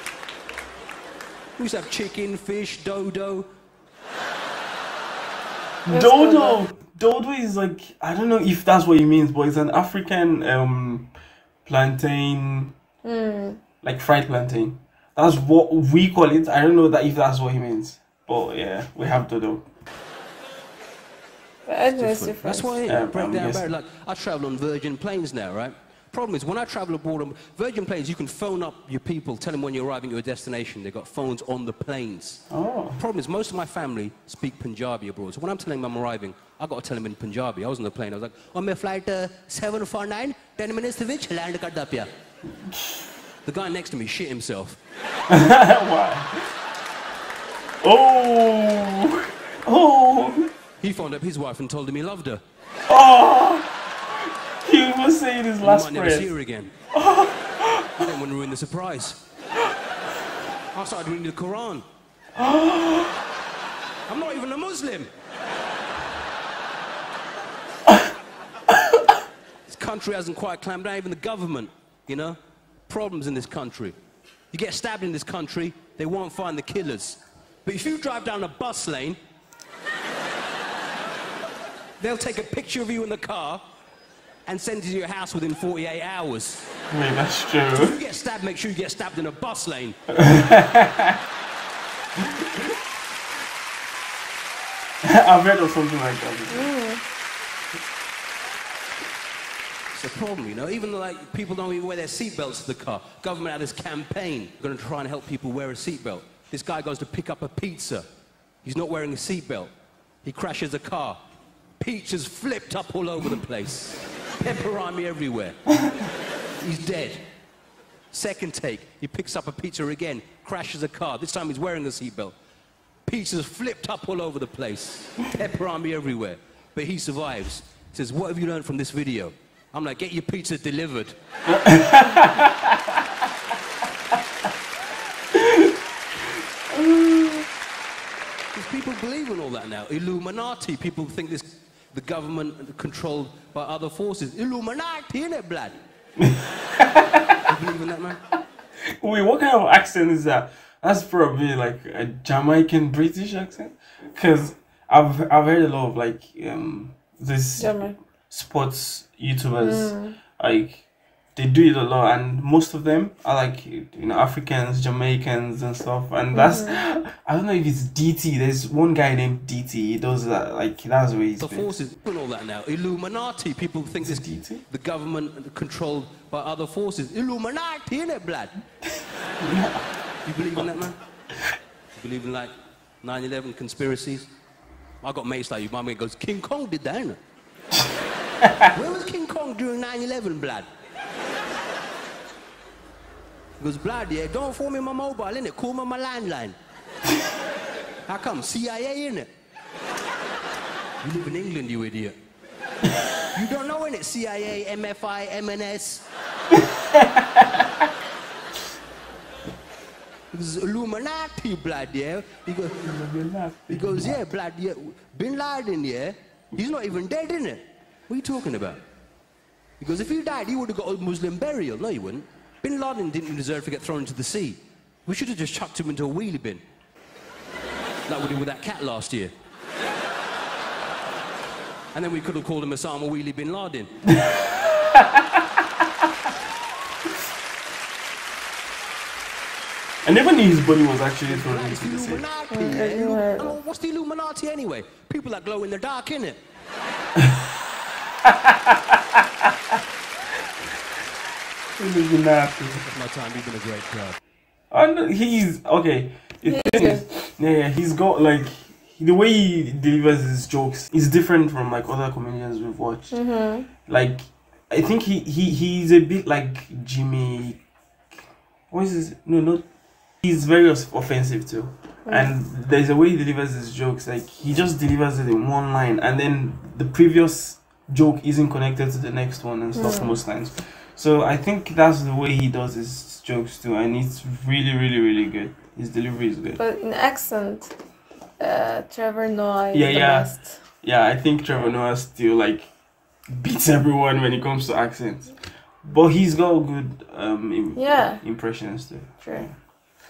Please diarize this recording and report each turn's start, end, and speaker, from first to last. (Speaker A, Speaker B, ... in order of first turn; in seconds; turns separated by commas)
Speaker A: 1.6-3.5, Speaker B: 5.8-11.1, Speaker C: 5.9-6.6, Speaker B: 11.6-12.7, Speaker C: 13.0-13.6, Speaker B: 13.8-19.7, Speaker C: 21.6-22.7, Speaker A: 21.9-32.4, Speaker B: 22.9-23.7, Speaker B: 32.5-33.0, Speaker A: 33.0-42.1, Speaker B: 42.6-43.0, Speaker A: 43.4-44.8, Speaker B: 45.3-46.3, Speaker B: 47.8-50.5, Speaker A: 50.8-52.4, Speaker B: 52.9-53.7, Speaker B: 54.6-56.3, Speaker A: 55.6-56.7, Speaker B: 56.9-58.0, Speaker A: 58.0-59.2, Speaker A: 60.7-61.8, Speaker B: 62.4-63.2, Speaker A: 64.1-65.1, Speaker A: 69.7-72.4, Speaker A: 72.9-74.0, Speaker A: 74.5-79.2, Speaker A: 82.0-83.6, Speaker A: 84.5-86.6, Speaker B: 86.9-88.0, Speaker A: 87.7-90.0, Speaker B: 90.1-91.2, Speaker B: 95.0-96.7, Speaker C: 96.5-97.0, Speaker A: 99.9-108.0, Speaker A: 108.6-109.7, Speaker A: 110.2-111.2, Speaker A: 111.8-115.6, Speaker A: 116.6-117.2, Speaker A: 118.1-122.3, Speaker A: 123.0-131.2, Speaker B: 131.5-132.8, Speaker B: 135.3-135.7, Speaker B: 136.7-137.4, Speaker A: 138.5-145.8, Speaker B: 146.2-147.3, Speaker A: 147.5-148.2, Speaker B: 149.0-160.8, Speaker C: 157.6-158.0, Speaker C: 159.6-160.1, Speaker B: 161.3-171.7, Speaker C: 166.3-166.8, Speaker A: 171.4-178.5, Speaker B: 174.0-174.6, Speaker B: 179.4-179.8, Speaker A: 180.2-180.9, Speaker A: 182.0-182.5, Speaker A: 183.0-184.3, Speaker A: 185.0-187.2, Speaker B: 188.4-188.7, Speaker A: 188.7-190.7, Speaker A: 193.6-196.6, Speaker A: 198.1-199.3, Speaker A: 201.0-202.1, Speaker A: 203.3-206.0, Speaker A: 210.3-212.8, Speaker B: 212.8-214.2, Speaker A: 213.7-218.8, Speaker A: 219.8-226.6, Speaker A: 228.1-229.3, Speaker A: 231.9-233.9, Speaker B: 234.1-235.2, Speaker B: 240.0-242.2, Speaker A: 241.3-246.4, Speaker C: 242.5-243.6, Speaker B: 248.2-249.0, Speaker B: 251.8-252.8, Speaker A: 252.7-254.2, Speaker B: 254.7-263.2, Speaker C: 256.4-257.0, Speaker C: 263.1-263.7, Speaker B: 263.9-267.6, Speaker B: 268.7-269.6, Speaker B: 270.2-286.6, Speaker C: 279.8-280.2, Speaker C: 286.6-287.8, Speaker C: 288.4-290.6, Speaker B: 289.7-290.3, Speaker B: 290.8-292.7, Speaker B: 293.3-295.3, Speaker B: 295.8-299.5, Speaker C: 297.7-298.2